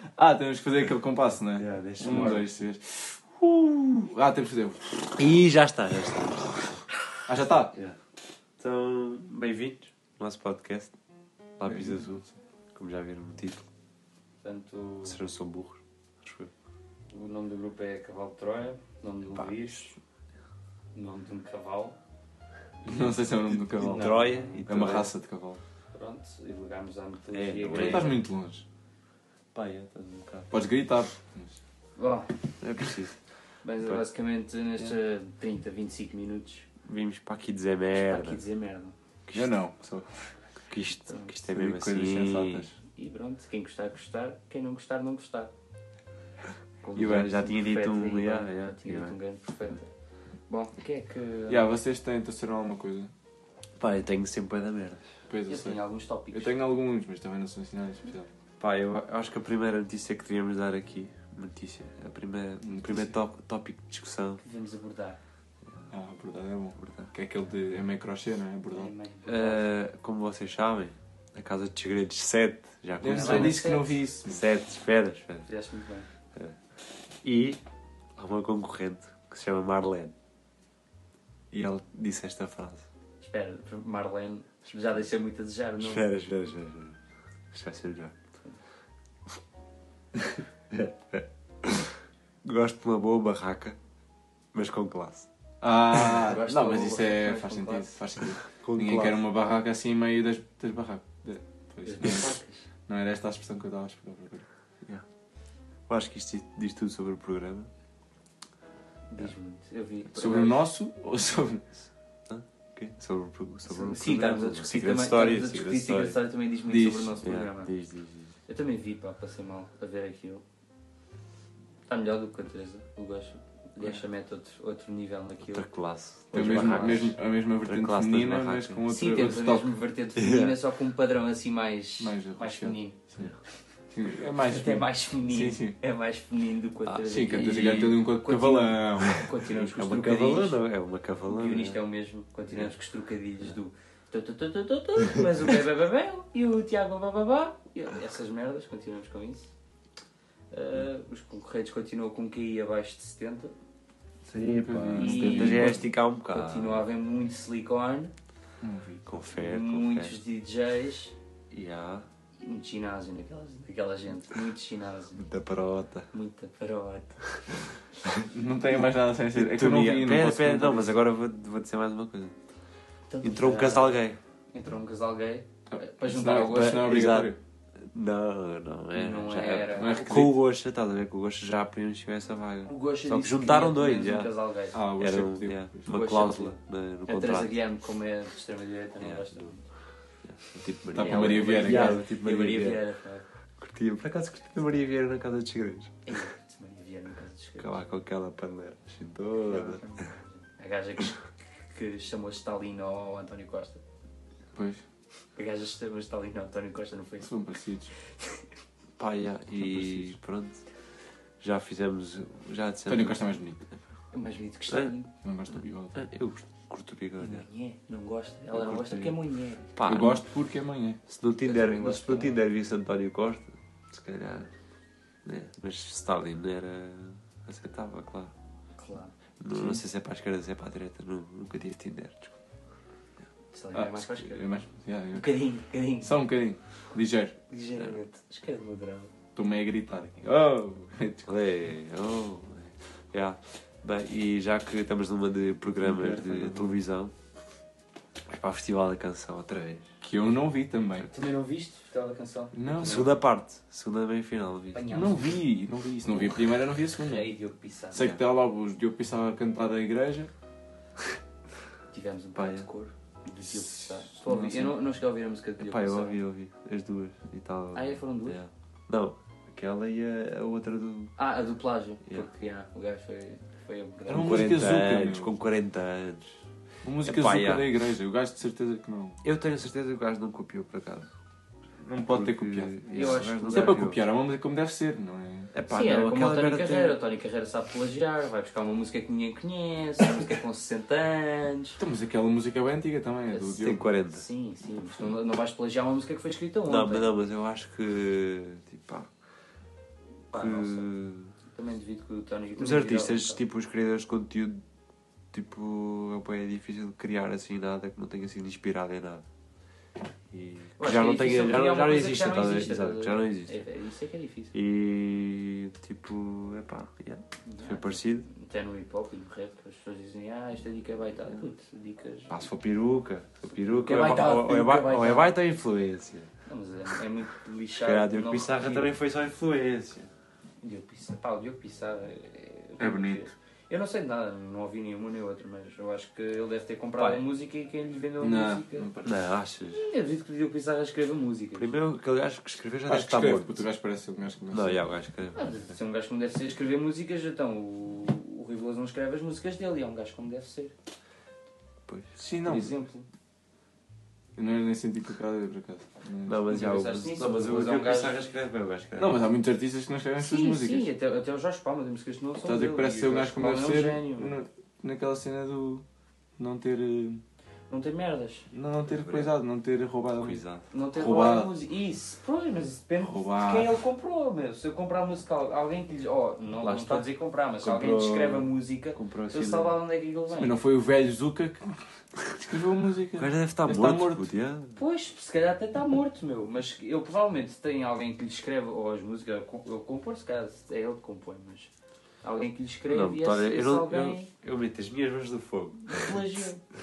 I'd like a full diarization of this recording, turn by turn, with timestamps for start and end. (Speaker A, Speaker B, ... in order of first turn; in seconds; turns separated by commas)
Speaker A: 0.2-5.2, Speaker B: 1.6-2.5, Speaker C: 2.1-2.5, Speaker B: 5.2-7.0, Speaker A: 7.2-7.7, Speaker B: 7.7-8.0, Speaker B: 8.6-10.9, Speaker B: 11.6-12.2, Speaker A: 11.7-12.3, Speaker B: 12.7-13.7, Speaker C: 14.4-15.2, Speaker B: 15.0-16.5, Speaker C: 17.1-19.9, Speaker B: 19.3-19.8, Speaker C: 20.9-22.0, Speaker A: 22.9-25.6, Speaker C: 22.9-23.1, Speaker C: 23.7-24.6, Speaker B: 23.8-25.1, Speaker C: 25.9-28.2, Speaker B: 27.3-28.2, Speaker A: 27.7-28.6, Speaker B: 29.5-30.5, Speaker A: 30.5-31.6, Speaker C: 32.0-32.4, Speaker B: 32.6-33.2, Speaker C: 33.6-36.7, Speaker B: 36.8-38.4, Speaker C: 37.9-38.9, Speaker B: 39.3-39.5, Speaker A: 39.3-40.2, Speaker B: 40.7-42.7, Speaker C: 41.1-41.3, Speaker A: 41.5-42.7, Speaker C: 42.9-45.5, Speaker C: 46.8-49.9, Speaker B: 46.9-49.1, Speaker A: 47.0-47.3, Speaker C: 50.5-51.7, Speaker A: 51.5-53.1, Speaker B: 53.8-55.0, Speaker A: 55.3-55.8, Speaker C: 55.5-56.5, Speaker A: 56.3-58.3, Speaker B: 58.6-64.4, Speaker A: 62.6-63.1, Speaker C: 64.4-65.2, Speaker A: 65.9-68.9, Speaker B: 66.8-67.1, Speaker C: 68.7-69.7, Speaker B: 69.2-73.7, Speaker A: 73.0-74.4, Speaker C: 73.0-74.0, Speaker B: 74.2-75.5, Speaker C: 75.5-76.1, Speaker B: 76.3-76.6, Speaker B: 77.2-77.6, Speaker B: 78.2-80.1, Speaker B: 81.5-82.8, Speaker C: 83.2-86.1, Speaker B: 85.8-87.0, Speaker B: 87.5-88.2, Speaker B: 90.2-93.8, Speaker B: 94.5-95.3, Speaker A: 95.6-102.3, Speaker B: 95.9-96.3, Speaker C: 96.2-98.0, Speaker B: 98.6-99.2, Speaker C: 101.8-102.6, Speaker A: 102.9-104.5, Speaker B: 105.9-107.7, Speaker C: 109.1-110.7, Speaker A: 110.1-111.6, Speaker B: 112.3-116.2, Speaker C: 113.7-117.7, Speaker A: 116.7-117.2, Speaker B: 117.2-118.3, Speaker C: 118.5-120.4, Speaker C: 121.9-125.7, Speaker B: 125.4-128.8, Speaker A: 126.3-129.8, Speaker C: 126.3-127.1, Speaker C: 128.9-133.0, Speaker B: 130.2-130.6, Speaker A: 132.0-133.3, Speaker A: 133.9-135.8, Speaker C: 134.4-140.6, Speaker B: 136.8-138.0, Speaker A: 137.1-139.2, Speaker B: 139.0-141.8, Speaker C: 141.3-149.5, Speaker C: 150.5-153.5, Speaker B: 154.2-156.9, Speaker A: 154.5-155.8, Speaker C: 154.9-158.1, Speaker A: 158.6-159.0, Speaker B: 159.0-160.2, Speaker C: 159.3-161.1, Speaker B: 161.5-162.1, Speaker C: 162.4-165.3, Speaker B: 165.1-166.1, Speaker C: 166.1-167.2, Speaker B: 168.0-172.4, Speaker A: 168.2-170.9, Speaker C: 173.1-176.9, Speaker B: 173.2-174.2, Speaker A: 175.7-177.4, Speaker B: 176.3-184.3, Speaker C: 178.9-180.2, Speaker A: 179.6-180.4, Speaker C: 182.6-184.8, Speaker A: 184.7-185.9, Speaker B: 184.9-187.6, Speaker C: 185.8-189.6, Speaker B: 189.0-189.5, Speaker B: 190.2-192.8, Speaker A: 190.9-192.0, Speaker C: 190.9-193.2, Speaker B: 193.6-196.1, Speaker C: 196.1-197.8, Speaker B: 197.6-200.1, Speaker C: 199.5-201.2, Speaker C: 201.7-203.8, Speaker A: 204.5-204.8, Speaker C: 205.3-207.3, Speaker A: 207.2-207.9, Speaker B: 209.0-210.6, Speaker A: 209.6-210.2, Speaker B: 211.4-213.2, Speaker A: 212.9-213.6, Speaker C: 214.1-215.1, Speaker B: 214.7-214.9, Speaker A: 215.2-216.1, Speaker B: 215.9-217.5, Speaker C: 217.2-219.7, Speaker B: 218.5-219.2, Speaker B: 219.7-220.2, Speaker A: 219.8-221.0, Speaker B: 221.1-224.5, Speaker C: 221.4-222.4, Speaker B: 225.2-228.3, Speaker C: 228.8-229.1, Speaker B: 229.4-232.3, Speaker A: 229.5-229.8, Speaker C: 233.5-234.5, Speaker A: 233.7-235.4, Speaker C: 235.1-236.1, Speaker A: 236.0-237.4, Speaker C: 237.5-239.1, Speaker A: 239.3-241.3, Speaker B: 241.2-247.1, Speaker A: 245.8-246.8, Speaker B: 248.3-249.9, Speaker A: 250.0-251.1, Speaker C: 251.1-253.2, Speaker A: 252.5-253.1, Speaker B: 252.8-254.9, Speaker C: 254.7-255.4, Speaker A: 254.9-257.3, Speaker C: 257.0-258.2, Speaker A: 257.9-260.3, Speaker C: 261.9-266.1, Speaker B: 262.3-262.7, Speaker A: 263.4-264.8, Speaker B: 265.6-271.1, Speaker C: 267.7-268.4, Speaker C: 271.2-274.6, Speaker B: 274.1-276.4, Speaker A: 274.1-275.3, Speaker A: 276.8-279.2, Speaker B: 277.0-277.7, Speaker B: 279.2-281.1, Speaker A: 281.8-285.5, Speaker B: 282.1-284.0, Speaker C: 282.9-283.9, Speaker B: 285.5-287.0, Speaker C: 285.7-291.8, Speaker A: 291.8-293.9, Speaker C: 293.3-297.1, Speaker B: 293.6-294.2, Speaker B: 296.7-299.1, Speaker C: 300.3-300.9, Speaker B: 300.3-301.3, Speaker C: 301.5-303.4, Speaker B: 302.5-304.6, Speaker B: 305.3-309.2, Speaker B: 310.3-313.6, Speaker C: 310.8-314.5, Speaker B: 314.5-318.3, Speaker C: 317.4-322.4, Speaker B: 322.3-326.3, Speaker C: 323.7-325.3, Speaker C: 326.4-328.9, Speaker B: 327.8-330.1, Speaker C: 330.6-338.9, Speaker A: 332.8-333.2, Speaker B: 337.0-337.2, Speaker A: 338.2-339.2, Speaker B: 339.0-339.8, Speaker C: 339.7-341.7, Speaker B: 341.6-343.6, Speaker A: 342.9-344.8, Speaker B: 344.5-345.5, Speaker C: 345.3-350.7, Speaker B: 351.9-352.1, Speaker A: 352.2-352.7, Speaker C: 352.4-353.1, Speaker A: 354.4-356.4, Speaker B: 356.2-359.2, Speaker C: 356.4-358.3, Speaker A: 359.0-360.9, Speaker C: 360.2-364.4, Speaker A: 362.4-365.8, Speaker A: 366.4-367.2, Speaker C: 367.7-368.5, Speaker A: 368.5-370.4, Speaker B: 368.8-369.3, Speaker B: 370.2-370.7, Speaker C: 370.7-380.6, Speaker A: 370.9-371.5, Speaker A: 373.0-373.7, Speaker B: 376.6-377.1, Speaker B: 377.6-379.8, Speaker A: 380.3-381.7, Speaker A: 382.3-384.3, Speaker B: 383.1-384.8, Speaker C: 384.8-391.7, Speaker C: 392.2-394.3, Speaker B: 392.9-396.4, Speaker C: 395.8-396.6